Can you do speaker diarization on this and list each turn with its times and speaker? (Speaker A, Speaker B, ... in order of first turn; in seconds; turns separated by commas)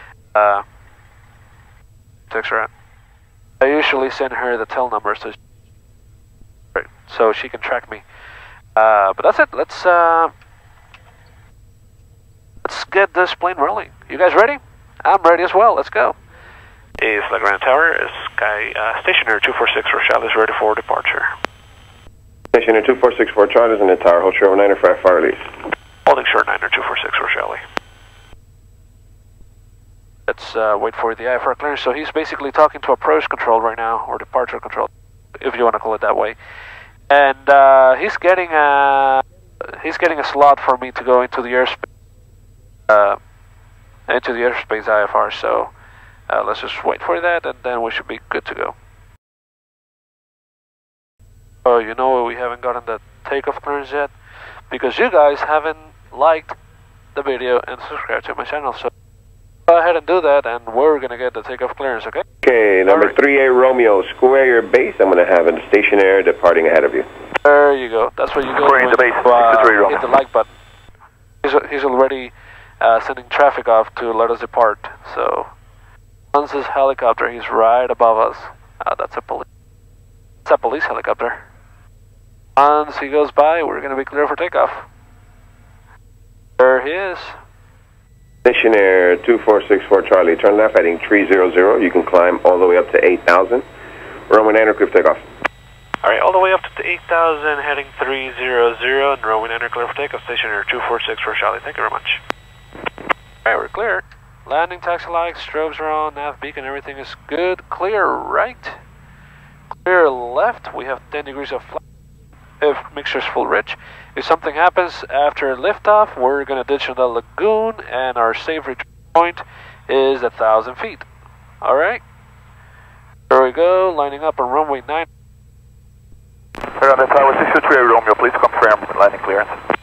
Speaker A: 0.3-0.6, Speaker A: 2.3-2.7, Speaker A: 3.6-5.4, Speaker A: 6.7-8.0, Speaker A: 8.8-10.3, Speaker A: 12.6-16.2, Speaker A: 17.0-21.3, Speaker B: 22.5-25.4, Speaker A: 26.1-27.6, Speaker A: 30.3-36.4, Speaker A: 37.1-41.9, Speaker A: 42.9-43.2, Speaker A: 44.1-45.7, Speaker A: 46.3-48.8, Speaker A: 51.6-54.1, Speaker A: 54.7-56.5, Speaker A: 57.1-58.9, Speaker A: 59.7-62.2, Speaker B: 62.4-67.1, Speaker A: 62.9-63.2, Speaker A: 67.4-70.5, Speaker C: 68.5-70.0, Speaker A: 71.4-75.5, Speaker A: 76.3-79.5, Speaker A: 80.4-81.4, Speaker A: 82.6-84.9, Speaker A: 86.6-87.4, Speaker B: 88.4-93.6, Speaker B: 94.3-95.2, Speaker A: 96.0-102.2, Speaker A: 103.4-108.8, Speaker A: 109.7-111.8, Speaker A: 112.6-121.1, Speaker A: 121.6-122.0, Speaker A: 123.3-125.1, Speaker C: 126.8-129.5